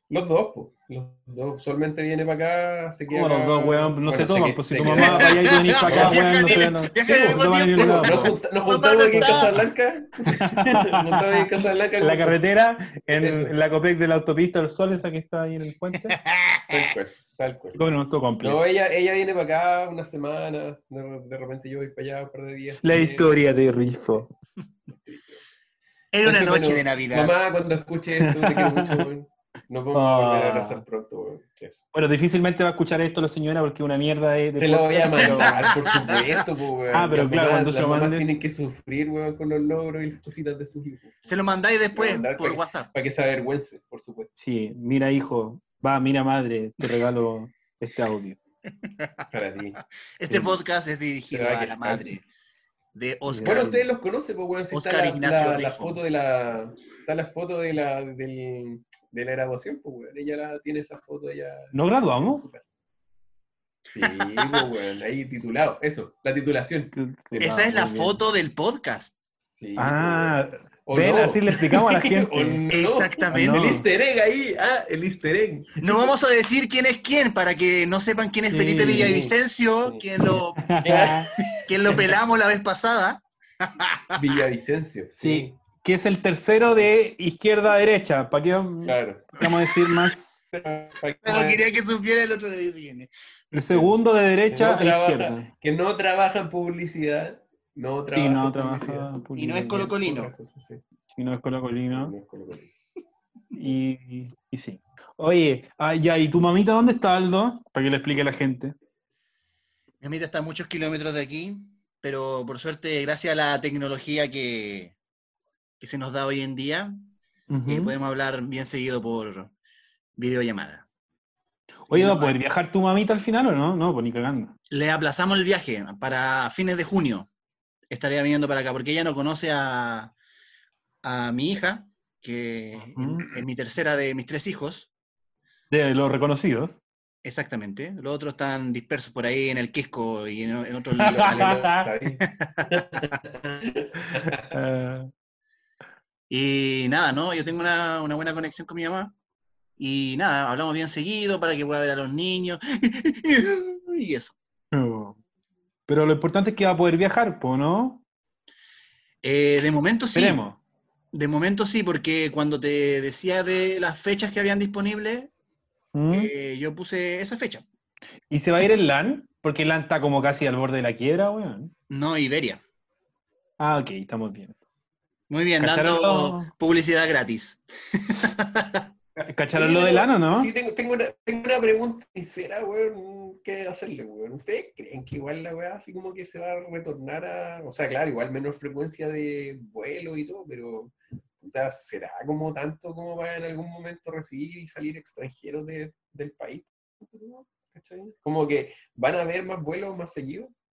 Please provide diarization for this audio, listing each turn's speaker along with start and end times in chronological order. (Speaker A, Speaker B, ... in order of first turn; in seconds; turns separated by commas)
Speaker A: 0.1-12.4, Speaker B: 3.1-8.4, Speaker C: 4.9-9.6, Speaker B: 9.1-9.5, Speaker B: 10.3-11.5, Speaker B: 12.0-16.2, Speaker A: 13.1-13.5, Speaker C: 16.1-16.9, Speaker A: 16.7-17.9, Speaker B: 17.8-18.7, Speaker A: 18.4-23.6, Speaker B: 22.8-24.3, Speaker A: 24.9-25.4, Speaker C: 26.1-27.4, Speaker A: 26.2-31.8, Speaker B: 28.2-29.1, Speaker B: 29.9-30.8, Speaker B: 31.9-35.8, Speaker A: 34.6-41.4, Speaker C: 35.4-36.4, Speaker B: 36.9-38.4, Speaker C: 41.3-42.9, Speaker A: 41.9-44.3, Speaker B: 44.4-48.4, Speaker C: 48.8-49.3, Speaker A: 49.3-49.8, Speaker C: 50.2-52.2, Speaker B: 50.3-50.6, Speaker A: 51.3-52.1, Speaker C: 52.9-53.7, Speaker B: 53.3-53.8, Speaker A: 53.4-62.7, Speaker C: 54.7-56.0, Speaker B: 61.7-62.5, Speaker A: 63.9-66.9, Speaker C: 64.0-64.7, Speaker B: 66.9-68.2, Speaker C: 67.4-69.2, Speaker A: 69.6-75.9, Speaker B: 69.8-72.6, Speaker C: 72.7-73.8, Speaker B: 73.3-73.8, Speaker C: 75.8-80.7, Speaker B: 78.5-79.2, Speaker A: 78.7-80.0, Speaker B: 80.6-81.3, Speaker A: 80.8-82.1, Speaker C: 81.4-84.4, Speaker A: 84.2-85.5, Speaker B: 85.2-90.4, Speaker A: 88.9-89.3, Speaker A: 90.5-91.6, Speaker C: 91.2-93.1, Speaker B: 93.5-95.5, Speaker A: 94.5-99.2, Speaker B: 98.1-99.9, Speaker C: 99.4-100.3, Speaker A: 99.7-100.8, Speaker B: 101.2-102.1, Speaker A: 101.8-102.7, Speaker B: 103.5-108.8, Speaker C: 110.0-115.0, Speaker C: 115.8-117.1, Speaker B: 117.5-117.9, Speaker C: 117.7-119.5, Speaker C: 120.2-120.8, Speaker B: 121.8-124.5, Speaker C: 121.9-122.4, Speaker C: 124.7-127.3, Speaker C: 127.9-130.1, Speaker C: 131.0-134.9, Speaker B: 132.9-133.4, Speaker B: 135.7-136.8, Speaker C: 137.2-141.7, Speaker B: 141.0-141.9, Speaker A: 141.0-144.5, Speaker C: 142.3-143.0, Speaker B: 144.5-145.1, Speaker C: 146.3-149.2, Speaker C: 149.8-154.4, Speaker B: 154.7-155.2, Speaker B: 155.9-158.0, Speaker C: 159.2-160.4, Speaker B: 160.1-160.6, Speaker C: 161.1-165.3, Speaker B: 165.9-166.3, Speaker C: 166.1-167.7, Speaker B: 168.3-171.7, Speaker C: 171.9-172.6, Speaker B: 173.6-174.6, Speaker C: 175.3-178.9, Speaker B: 175.6-176.5, Speaker B: 179.2-180.5, Speaker A: 179.6-200.5